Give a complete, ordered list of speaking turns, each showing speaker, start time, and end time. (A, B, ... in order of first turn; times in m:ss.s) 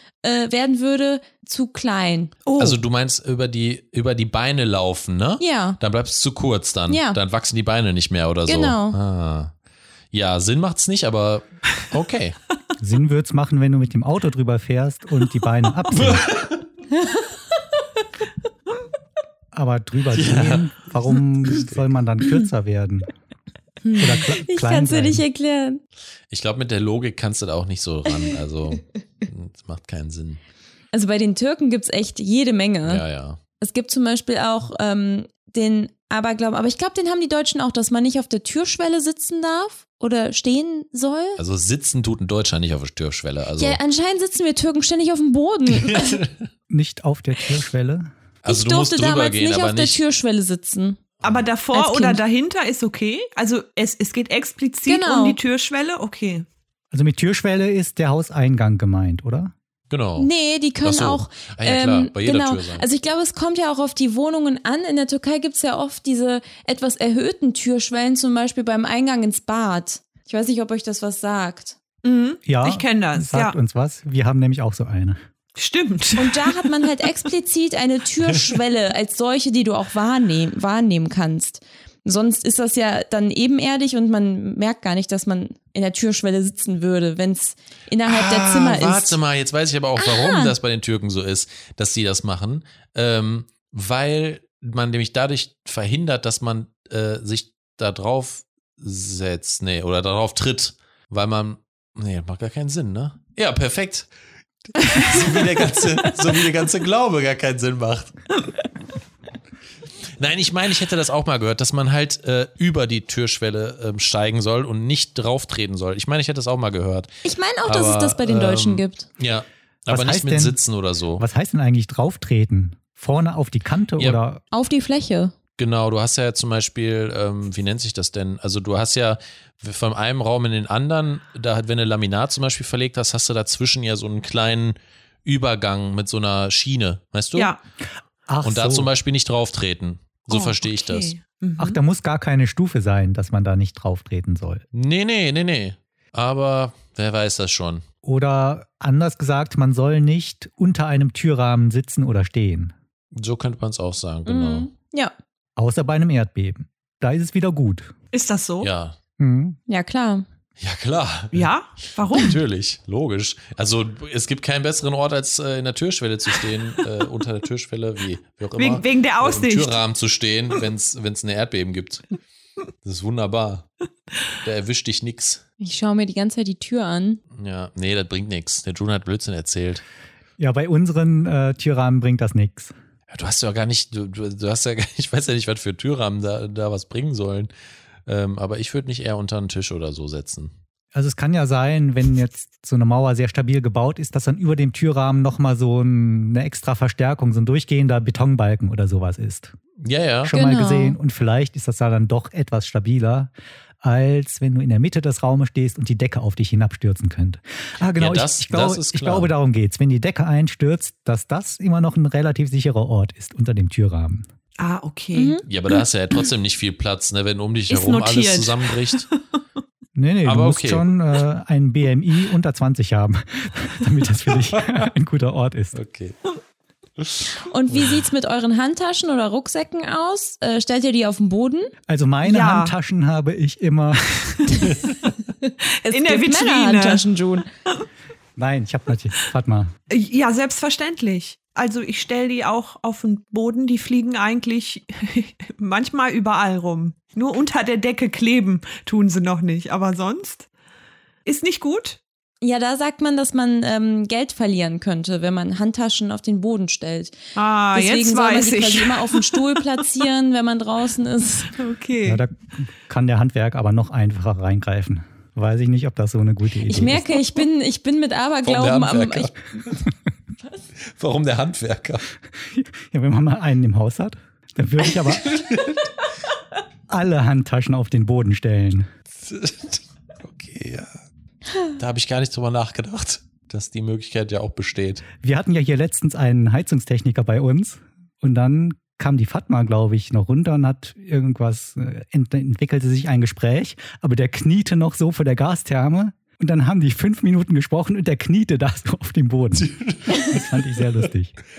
0:00.2-0:02.3 A
0:02.4-0:02.8 B
0:02.6-0:09.5 C
0:05.4-0:05.8 A
0:06.9-0:07.2 A
0:08.5-0:09.0 A
0:10.1-0:12.4 C
0:12.8-0:16.3 D
0:15.9-0:16.6 C
0:19.5-0:23.1 D
0:20.1-0:21.8 C
0:23.8-0:25.8 A
0:24.0-0:25.2 D
0:26.3-0:30.4 C
0:30.9-0:33.0 A
0:32.8-0:33.4 C
0:33.6-0:41.4 A
0:41.4-0:43.8 C
0:43.6-0:46.2 A
0:45.7-0:46.4 C
0:46.7-0:48.1 D
0:48.4-0:50.0 C
0:48.5-0:51.0 A
0:51.2-0:56.4 B
0:51.7-0:52.2 A
0:54.9-0:55.4 A
0:56.9-0:59.5 D
0:59.9-1:00.3 C
1:00.2-1:11.8 A
1:00.8-1:02.8 C
1:12.0-1:13.5 B
1:12.4-1:15.2 D
1:15.6-1:16.7 B
1:16.2-1:29.2 A
1:28.1-1:44.1 C
1:30.0-1:30.5 A
1:44.8-1:48.1 C
1:50.2-1:57.1 C
1:57.2-1:59.1 A
1:57.6-2:01.2 C
1:59.9-2:00.6 D
2:01.2-2:04.4 D
2:04.5-2:05.3 A
2:05.6-2:17.5 C
2:17.3-2:17.6 B
2:18.3-2:18.9 D
2:18.4-2:21.1 C
2:20.3-2:21.8 B
2:21.6-2:24.6 D
2:24.7-2:27.8 C
2:28.0-2:32.7 D
2:33.1-2:34.7 C
2:34.2-2:35.1 A
2:35.6-2:37.9 D
2:38.1-2:38.7 B
2:38.6-2:39.0 C
2:39.2-2:39.6 D
2:39.7-2:40.2 A
2:40.6-2:41.5 C
2:41.3-2:42.4 B
2:42.0-2:52.0 C
2:48.6-2:49.8 B
2:52.8-2:53.7 C
2:54.4-2:55.4 C
2:55.6-2:57.2 A
2:57.3-2:59.8 C
3:00.4-3:02.7 D
3:03.1-3:07.5 C
3:08.0-3:10.5 C
3:10.9-3:19.5 D
3:19.8-3:20.3 C
3:20.2-3:23.3 D
3:20.3-3:21.0 A
3:23.8-3:34.2 D
3:27.9-3:29.3 C
3:34.6-3:35.4 B
3:35.1-3:35.4 A
3:35.4-3:39.0 C
3:37.7-3:39.1 B
3:39.9-3:45.8 D
3:40.2-3:40.9 C
3:45.7-3:46.2 C
3:47.0-3:48.0 C
3:47.4-3:51.7 A
3:51.9-3:54.6 D
3:52.2-3:52.7 B
3:55.4-3:57.5 A
3:55.9-3:57.0 B
3:58.4-3:59.7 D
3:59.9-4:10.5 B
4:11.2-4:12.0 B
4:12.4-4:17.2 A
4:17.4-4:19.8 B
4:17.7-4:21.6 A
4:21.5-4:22.2 B
4:22.0-4:27.2 D
4:26.6-4:29.4 A
4:28.4-4:29.8 C
4:30.9-4:32.0 C
4:32.5-4:35.4 D
4:35.3-4:35.8 C
4:36.9-4:38.9 D
4:39.2-4:41.0 C
4:41.8-4:45.0 C
4:45.2-5:01.3 D
4:59.6-5:00.4 C